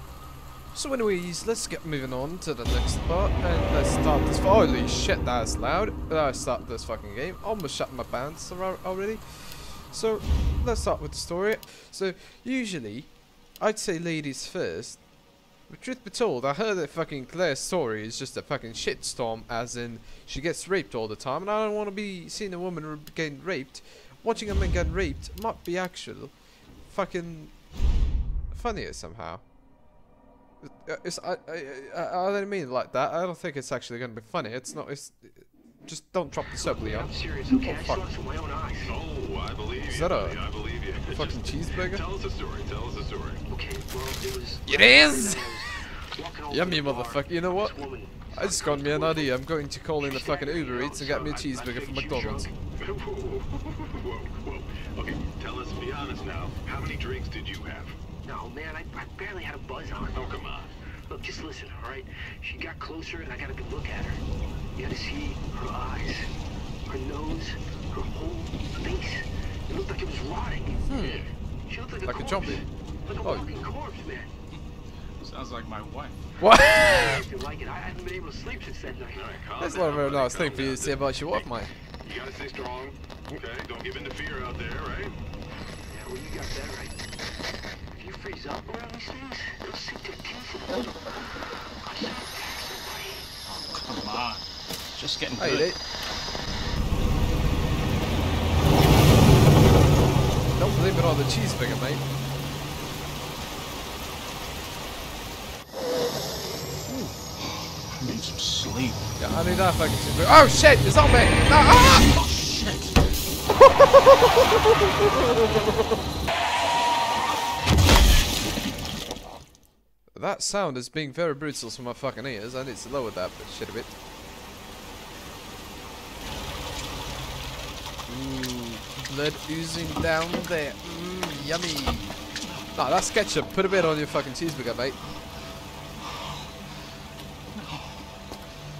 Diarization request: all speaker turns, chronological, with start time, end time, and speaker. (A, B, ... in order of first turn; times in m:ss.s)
0:00.7-0:15.0 A
0:15.7-0:26.3 A
0:26.9-0:27.5 A
0:28.5-0:29.4 A
0:30.6-0:38.1 A
0:36.6-0:39.0 B
0:38.9-0:43.4 C
0:39.9-0:40.4 A
0:41.0-0:42.0 A
0:43.5-0:49.3 B
0:44.7-0:45.6 A
0:46.5-0:52.5 A
0:50.0-0:52.5 B
0:53.0-0:58.0 C
0:58.3-1:00.3 B
1:00.2-1:00.7 C
1:01.1-1:04.2 B
1:04.8-1:06.3 B
1:06.9-1:14.3 B
1:10.9-1:11.3 A
1:12.0-1:12.6 A
1:13.2-1:13.5 A
1:15.2-1:16.2 D
1:16.4-1:17.2 A
1:16.6-1:19.3 B
1:19.2-1:21.4 C
1:19.6-1:21.7 A
1:22.0-1:25.2 C
1:25.9-1:27.0 B
1:27.9-1:31.2 B
1:31.8-1:33.3 B
1:33.7-1:35.7 D
1:35.4-1:35.8 A
1:40.5-1:42.0 A
1:46.9-1:47.1 A
1:48.0-1:49.0 D
1:49.2-1:52.2 A
1:53.6-1:54.8 A
2:00.1-2:04.0 A
2:08.1-2:12.2 A
2:12.7-2:15.0 A